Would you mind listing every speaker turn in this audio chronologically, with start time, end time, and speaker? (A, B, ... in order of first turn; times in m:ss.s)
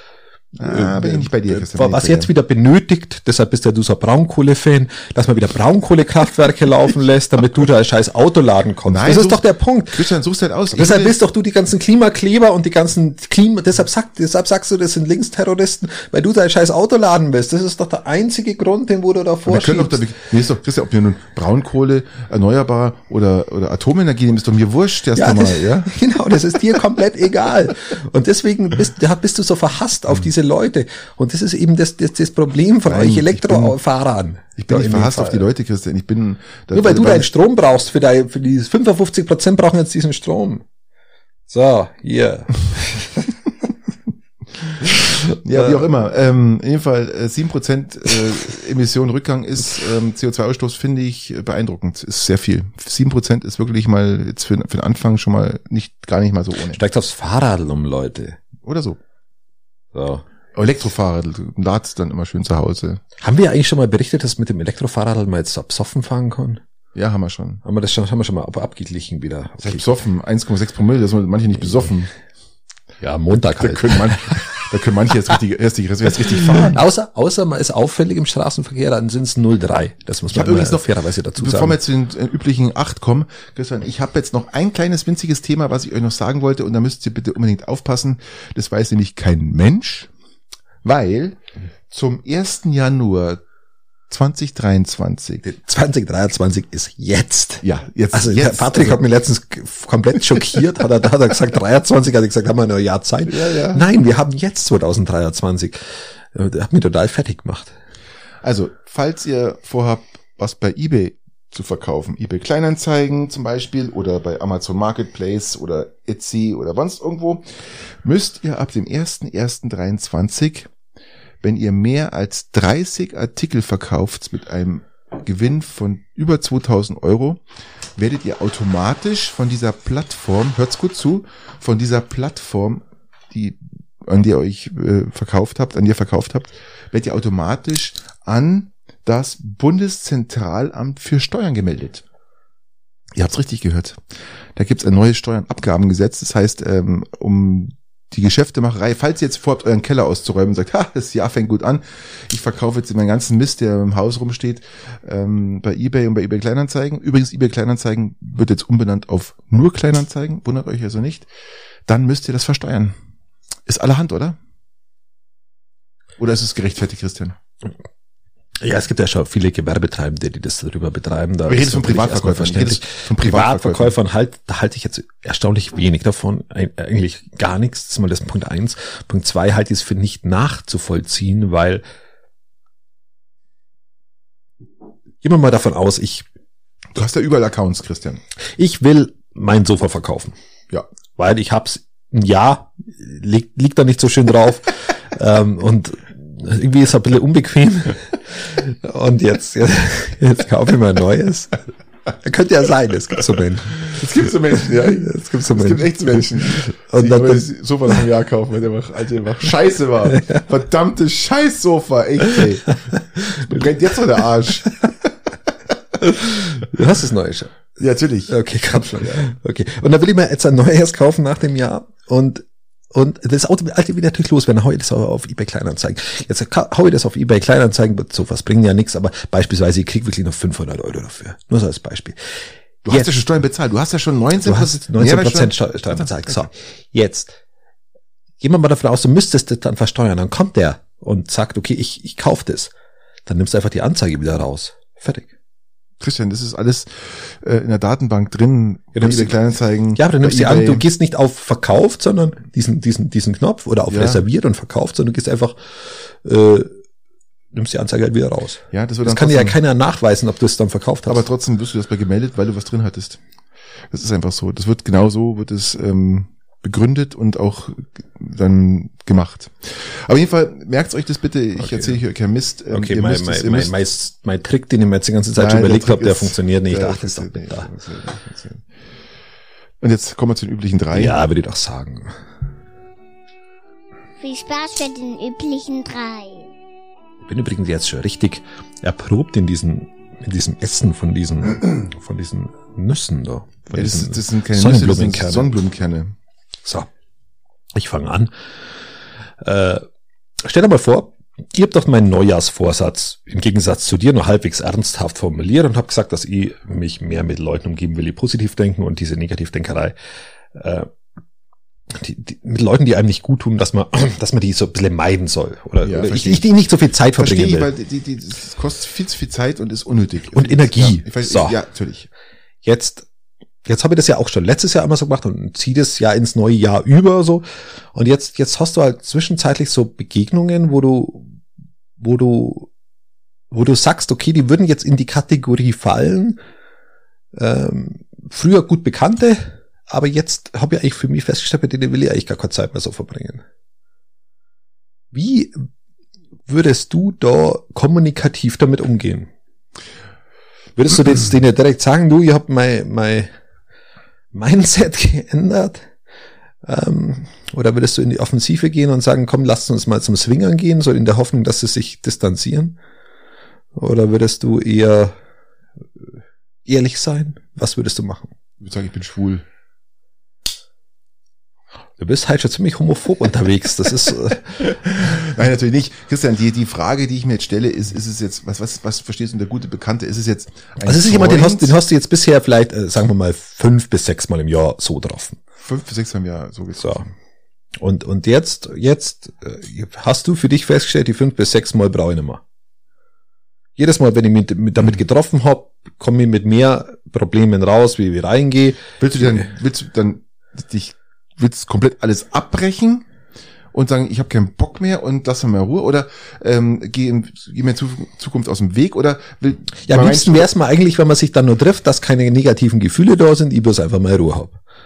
0:00.6-0:02.3 A
0:00.6-0:10.0 B
0:08.8-0:11.2 A
0:10.7-0:20.0 B
0:19.4-0:25.9 A
0:25.2-0:35.4 B
0:32.8-0:33.8 A
0:34.6-0:37.3 A
0:36.7-0:40.6 B
0:41.5-0:43.3 B
0:44.6-0:56.8 A
0:44.9-0:45.8 B
0:56.7-0:58.4 B
0:58.6-0:59.0 A
0:59.9-1:00.2 B
1:00.6-1:03.0 A
1:03.2-1:06.6 B
1:06.9-1:07.6 A
1:07.6-1:09.9 B
1:09.6-1:12.1 A
1:13.0-1:14.6 B
1:13.4-1:16.8 A
1:16.4-1:21.8 B
1:20.3-1:30.1 A
1:30.8-1:33.4 A
1:34.1-1:35.4 A
1:35.4-1:47.7 B
1:37.6-1:39.0 A
1:43.3-1:43.8 A
1:48.4-2:00.7 A
2:01.4-2:07.4 A
2:08.0-2:22.0 A
2:23.1-2:24.0 A
2:24.6-2:41.3 A
2:41.9-2:43.0 A
2:43.6-2:44.4 A
2:46.2-2:47.4 A
2:48.6-3:01.8 B
2:51.4-2:53.9 A
3:05.2-3:06.2 B
3:06.9-3:08.2 A
3:08.6-3:10.4 B
3:11.2-3:21.6 B
3:22.2-3:24.0 B
3:23.9-3:35.1 A
3:25.0-3:27.4 B
3:33.2-3:33.5 B
3:36.0-3:37.6 B
3:37.8-3:39.3 A
3:38.3-3:52.2 B
3:52.8-3:56.4 A
3:52.9-3:53.2 B
3:54.4-3:57.4 B
3:58.4-4:02.7 B
4:03.3-4:05.3 B
4:06.0-4:10.8 A
4:08.9-4:09.4 B
4:09.9-4:16.8 B
4:13.9-4:14.2 A
4:17.5-4:21.2 B
4:18.7-4:19.6 A
4:21.1-4:23.2 A
4:23.9-4:33.7 A
4:31.6-4:32.0 B
4:32.7-4:37.7 B
4:35.4-4:38.6 A
4:39.8-4:41.2 A
4:40.9-4:42.2 B
4:44.2-4:46.5 C
4:47.2-4:55.5 B
4:53.7-4:56.1 A
4:57.7-4:58.3 B
4:59.4-4:59.8 B
5:00.4-5:09.9 B
5:10.5-5:10.9 B
5:11.9-5:17.7 B
5:15.8-5:16.4 A
5:17.2-5:22.1 A
5:20.3-5:21.6 B
5:22.6-5:23.1 B
5:23.6-5:31.4 B
5:32.0-5:32.7 B
5:33.5-5:36.4 B
5:37.3-5:43.4 B
5:45.1-5:45.7 B
5:46.5-5:49.3 B
5:50.8-5:53.3 B
5:54.3-5:55.9 B
5:56.6-6:02.8 B
6:03.8-6:05.1 B
6:06.7-6:08.3 B
6:08.6-6:09.4 A
6:12.0-6:14.7 B
6:14.6-6:21.8 A
6:20.8-6:25.4 B
6:25.6-6:27.1 A
6:26.8-6:27.1 B
6:27.8-6:32.4 B
6:33.8-6:39.4 B
6:39.0-6:43.0 A
6:43.7-6:50.5 A
6:49.8-6:54.6 B